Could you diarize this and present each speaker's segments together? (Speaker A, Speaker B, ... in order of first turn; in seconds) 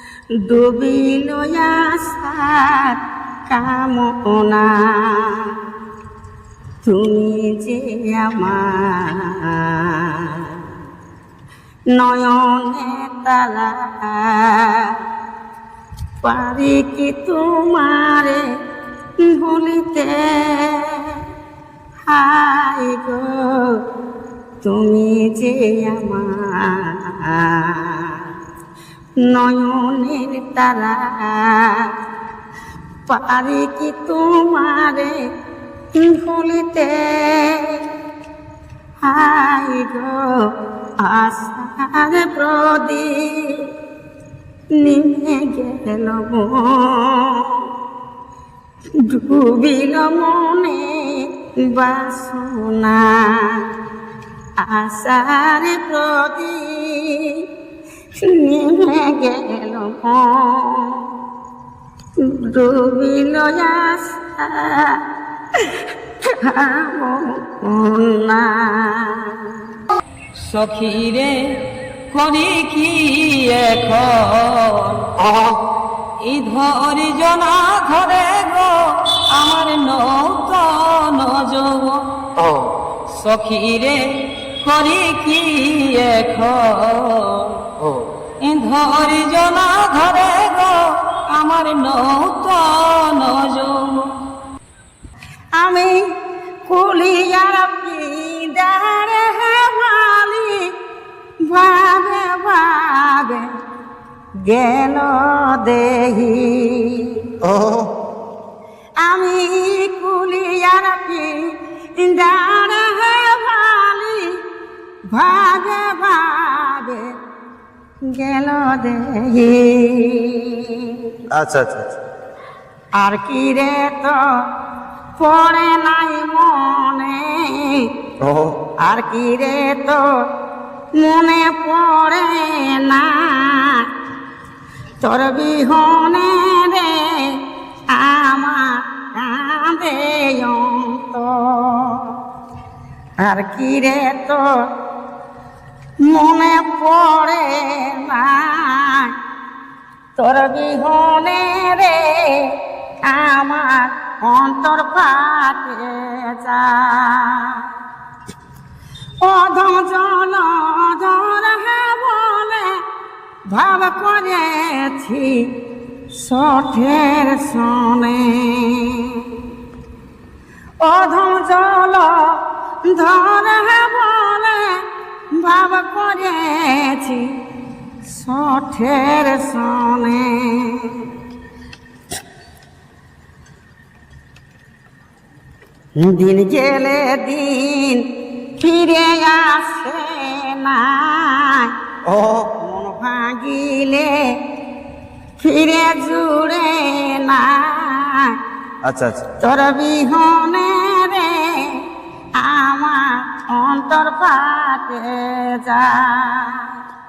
Speaker A: 0.4-3.0, 3.5-5.7, 6.8-10.7, 11.9-15.0, 16.2-18.5, 19.2-21.2, 22.1-23.8, 24.6-28.3, 29.2-31.9, 33.1-35.2, 36.0-37.9, 39.0-40.5, 41.0-43.7, 44.8-47.7, 49.0-53.7, 54.6-57.5, 58.2-61.1, 62.2-65.0, 66.4-69.6, 95.6-96.1, 96.7-100.7, 101.5-103.5, 104.5-107.3, 109.0-111.5, 112.0-114.4, 115.1-117.1, 118.1-121.1, 123.0-124.2, 125.2-127.9, 128.8-130.1, 131.0-133.9, 135.0-137.4, 137.9-142.2, 143.2-144.5, 146.1-149.1, 150.2-157.7, 159.2-162.8, 163.5-165.5, 166.2-169.4, 170.8-174.8, 175.4-177.3, 178.1-181.1, 186.0-188.0, 188.6-191.7, 192.6-194.2, 195.4-198.3, 199.4-201.8, 202.4-206.8
Speaker B: 70.4-75.0, 76.2-82.1, 83.1-87.6, 88.4-94.2
Speaker C: 75.2-75.6, 82.4-82.7, 87.8-88.1, 107.4-107.9, 121.3-122.0, 128.2-128.6, 192.0-192.5, 198.8-199.3